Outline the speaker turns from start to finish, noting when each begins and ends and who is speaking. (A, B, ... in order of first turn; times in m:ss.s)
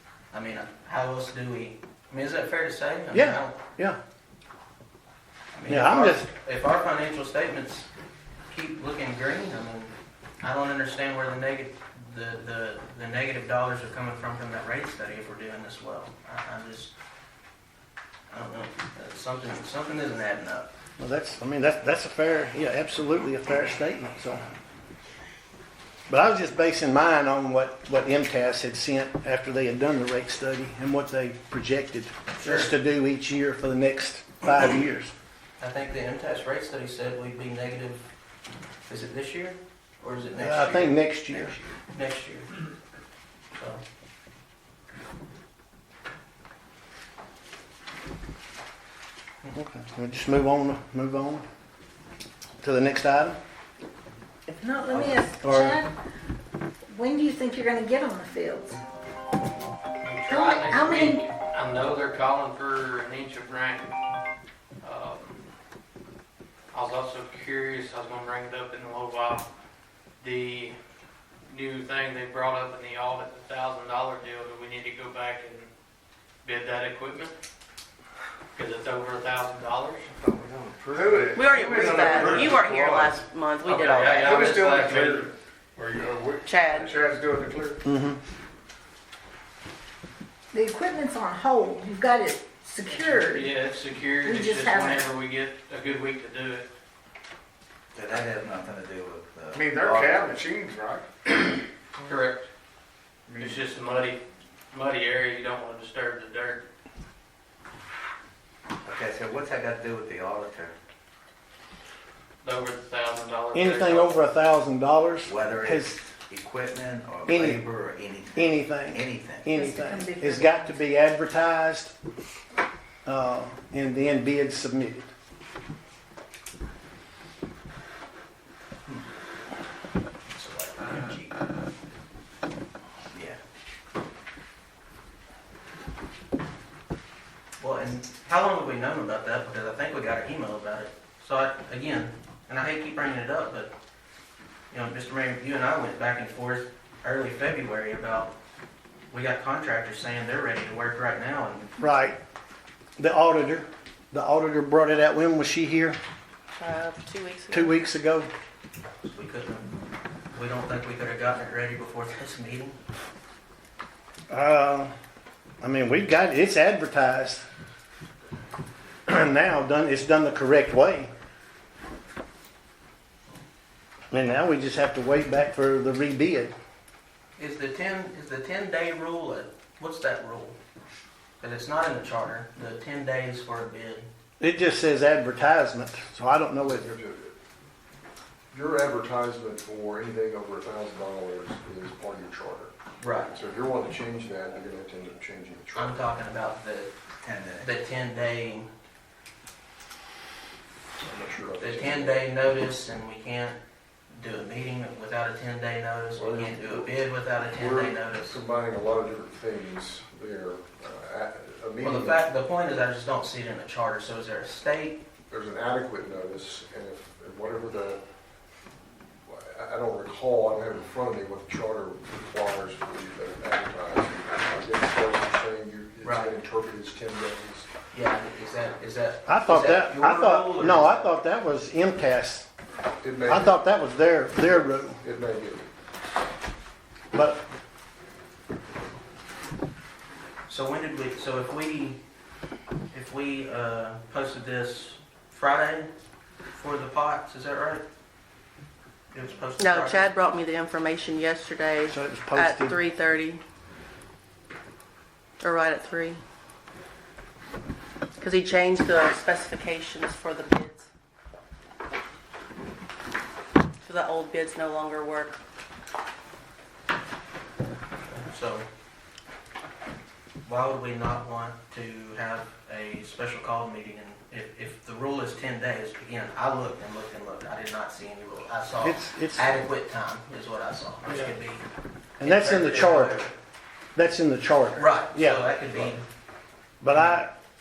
0:00.3-0:03.6 A
0:03.1-0:04.0 B
0:05.5-0:07.9 A
0:05.7-0:06.3 B
0:08.5-0:16.9 A
0:18.3-0:20.7 A
0:21.0-0:24.4 B
0:26.1-0:35.1 B
0:32.4-0:32.7 A
0:35.6-0:38.0 A
0:38.9-0:42.5 A
0:40.4-0:41.6 B
0:43.6-0:43.8 A
0:49.5-0:51.4 B
0:52.6-0:53.4 B
0:54.6-0:55.9 C
0:54.9-0:55.8 B
0:56.9-0:58.8 C
1:00.0-1:03.9 D
1:00.3-1:01.2 C
1:04.8-1:05.4 D
1:06.7-1:09.5 D
1:10.2-1:10.8 D
1:11.5-1:15.7 D
1:16.4-1:17.3 D
1:18.6-1:20.1 D
1:20.5-1:20.7 E
1:20.9-1:27.8 F
1:21.4-1:24.6 G
1:23.8-1:25.3 D
1:26.5-1:26.9 G
1:27.8-1:28.2 B
1:30.5-1:33.6 C
1:32.9-1:36.7 D
1:34.2-1:35.1 C
1:37.9-1:40.3 H
1:39.5-1:41.1 F
1:42.0-1:42.5 D
1:43.3-1:43.6 H
1:43.4-1:44.2 D
1:44.7-1:46.6 D
1:48.8-1:50.8 H
1:52.4-1:54.3 D
1:53.5-1:56.0 B
1:55.2-1:59.5 H
1:57.3-1:57.6 B
1:58.4-2:01.9 B
1:59.5-2:00.8 C
2:03.1-2:05.1 B
2:10.4-2:11.2 A
2:10.8-2:11.3 H
2:17.6-2:23.7 A
2:24.7-2:28.4 A
2:29.1-2:31.7 A
2:31.8-2:32.2 B
2:33.0-2:36.0 B
2:36.6-2:37.8 G
2:37.5-2:38.3 B
2:39.0-2:39.7 A
2:40.3-2:42.8 A
2:44.3-2:44.9 B
2:45.6-2:47.4 B
2:49.1-2:51.1 B
2:54.1-2:56.5 B
2:57.4-3:00.6 A
3:01.4-3:04.1 A
3:04.4-3:06.9 B
3:06.6-3:07.3 E
3:08.5-3:12.7 E
3:13.0-3:13.4 A
3:13.4-3:16.0 E
3:15.8-3:16.9 A
3:17.2-3:17.6 H
3:17.6-3:18.7 A
3:21.0-3:22.2 E
3:21.6-3:23.6 A
3:24.1-3:28.4 A
3:26.2-3:27.0 E
3:27.5-3:32.2 E
3:31.8-3:35.0 A
3:35.3-3:38.0 E
3:39.3-3:47.7 E
3:46.0-3:46.4 A
3:47.9-3:51.1 A
3:49.3-3:52.5 B
3:53.0-3:53.6 E
3:53.3-3:55.0 B
3:54.4-3:55.7 E
3:57.1-3:57.4 B
4:00.5-4:02.0 A
4:02.9-4:05.9 A
4:06.5-4:07.9 A
4:09.1-4:10.1 A
4:09.6-4:13.4 G
4:11.9-4:12.8 B
4:15.4-4:16.2 G
4:18.2-4:20.9 G
4:23.8-4:25.4 G
4:28.1-4:28.7 A
4:30.4-4:41.6 A
4:38.8-4:39.6 B
4:41.1-4:41.3 D
4:42.2-4:43.2 B
4:42.2-4:43.3 A
4:44.0-4:45.5 B
4:44.8-4:46.0 A
4:46.8-4:47.3 B